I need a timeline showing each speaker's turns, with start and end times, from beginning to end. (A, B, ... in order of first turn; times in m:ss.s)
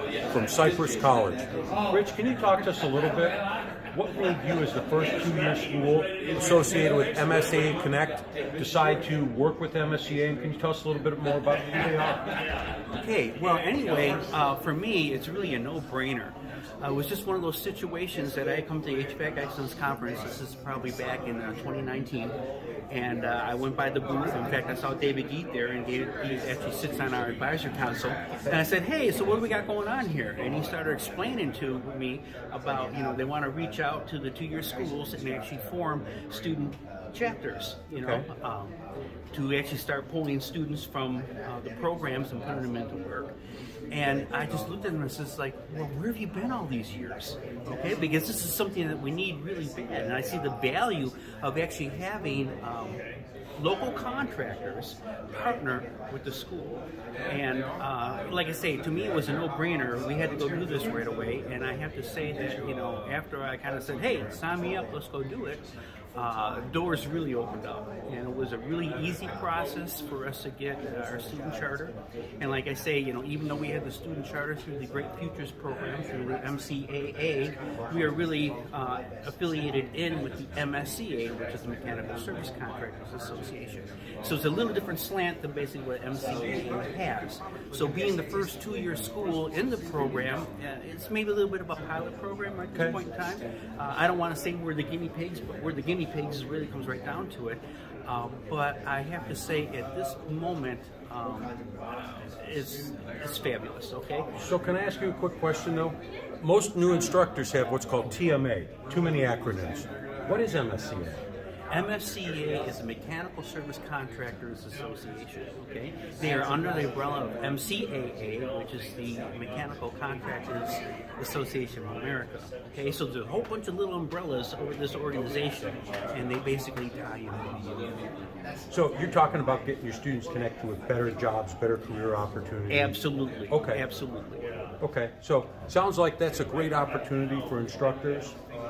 0:00.3-0:03.4 A
0:03.9-0:12.3 A
0:12.9-0:22.3 B
0:22.9-0:38.8 B
0:38.0-0:38.3 A
0:39.3-0:43.3 B
0:43.9-0:53.0 B
0:53.6-1:41.6 B
1:32.7-1:33.0 A
1:42.4-1:44.3 B
1:44.3-1:51.2 A
1:51.7-2:07.9 B
2:08.7-2:13.0 A
2:12.7-2:14.5 B
2:13.5-2:13.8 A
2:14.8-2:18.4 A